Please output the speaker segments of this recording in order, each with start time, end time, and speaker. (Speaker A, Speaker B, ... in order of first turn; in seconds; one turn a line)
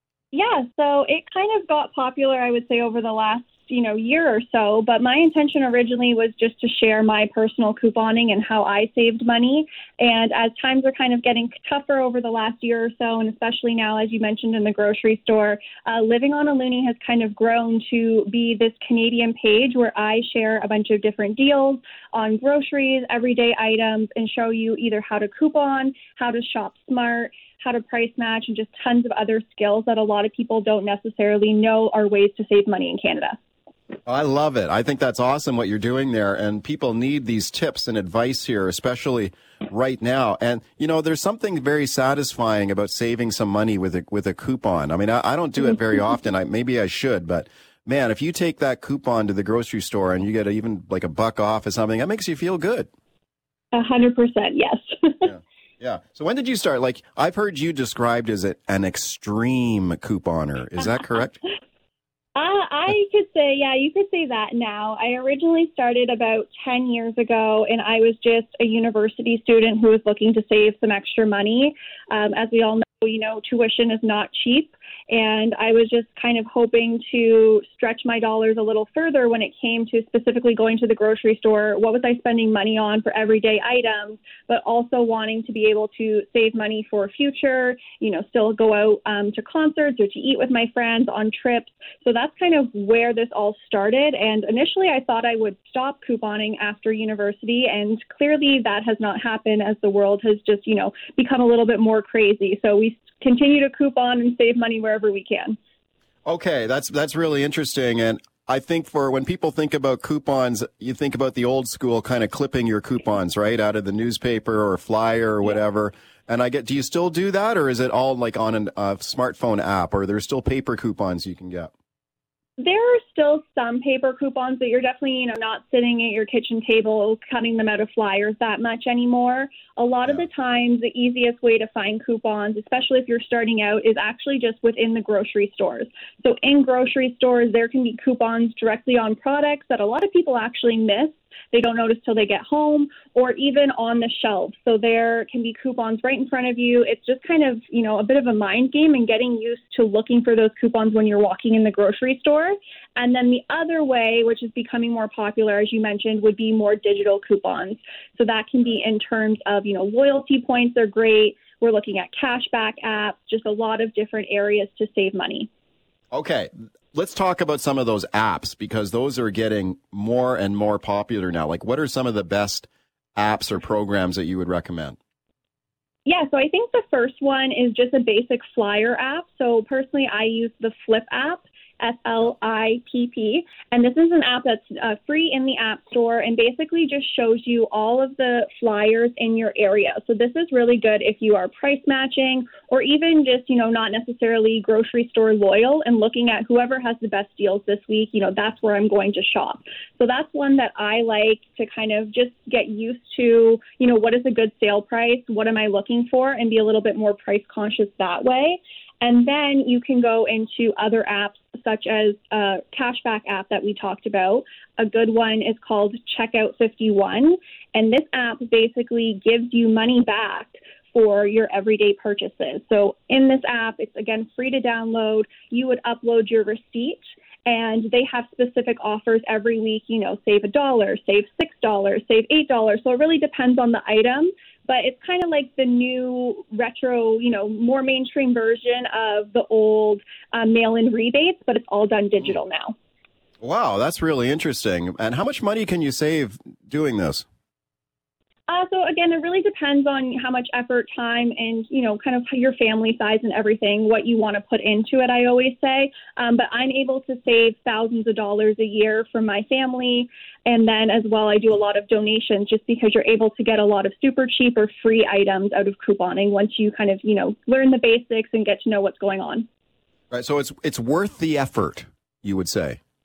Speaker A: 0.3-33.4
Speaker B: 34.1-52.9
Speaker A: 53.7-55.3
Speaker B: 55.2-61.4
Speaker A: 62.4-105.6
Speaker B: 106.2-121.7
Speaker A: 122.6-165.5
Speaker B: 166.1-175.0
Speaker A: 176.1-242.8
Speaker B: 243.4-247.2
Speaker A: 248.5-269.5
Speaker B: 270.1-272.8